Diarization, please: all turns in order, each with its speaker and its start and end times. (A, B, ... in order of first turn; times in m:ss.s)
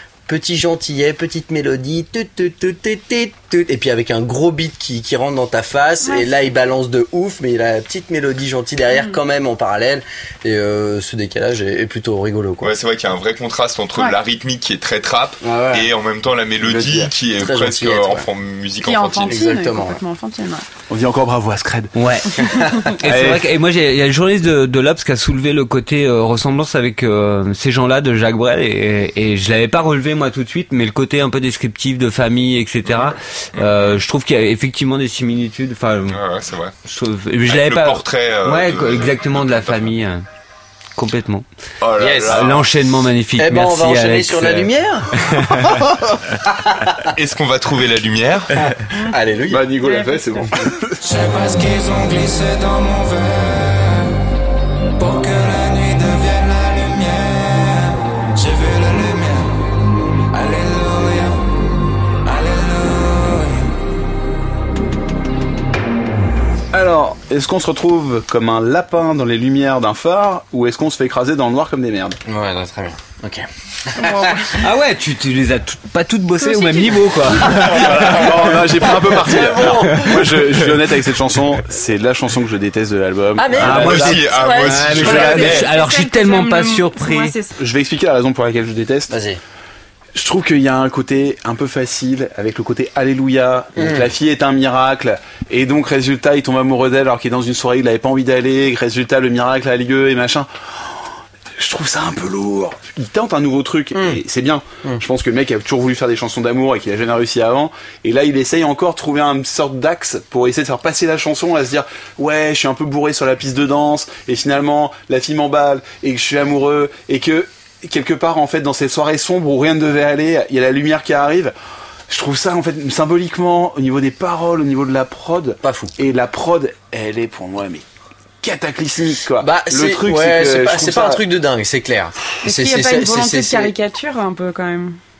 0:00.3-0:12.7 A
0:12.6-0:19.4 B
0:15.4-0:15.9 A
0:16.6-0:17.1 C
0:17.4-0:18.3 A
0:18.8-0:20.6 D
0:19.3-0:20.0 A
0:20.9-0:21.9 C
0:22.0-0:36.2 E
0:23.0-0:23.5 C
0:33.0-0:34.0 B
0:36.1-0:36.8 B
0:36.8-0:40.2 E
0:37.5-0:39.9 B
0:41.0-0:41.5 E
0:41.8-0:42.7 B
0:42.0-0:42.5 A
0:42.2-0:45.8 E
0:43.4-0:45.2 A
0:46.5-0:47.1 A
0:47.1-0:48.7 B
0:49.1-0:49.6 A
0:49.5-0:51.0 C
0:49.8-0:50.6 D
0:51.0-0:54.1 F
0:55.0-0:59.7 F
1:00.3-1:01.5 F
1:02.2-1:03.8 F
1:06.7-1:12.2 C
1:12.3-1:14.5 A
1:14.0-1:14.5 D
1:14.6-1:18.5 E
1:16.4-1:17.5 D
1:17.6-1:24.2 C
1:19.2-1:20.2 A
1:19.9-1:20.4 E
1:23.4-1:23.9 A
1:23.6-1:27.3 E
1:23.7-1:25.7 B
1:24.3-1:27.6 D
1:24.9-1:25.2 C
1:27.6-1:29.1 C
1:29.1-1:29.4 A
1:30.2-2:01.5 C
1:33.8-1:34.0 A
1:44.0-1:44.2 A
2:02.1-2:07.8 C
2:05.6-2:06.0 A
2:08.4-2:11.2 C
2:09.4-2:13.7 A
2:12.4-2:15.0 D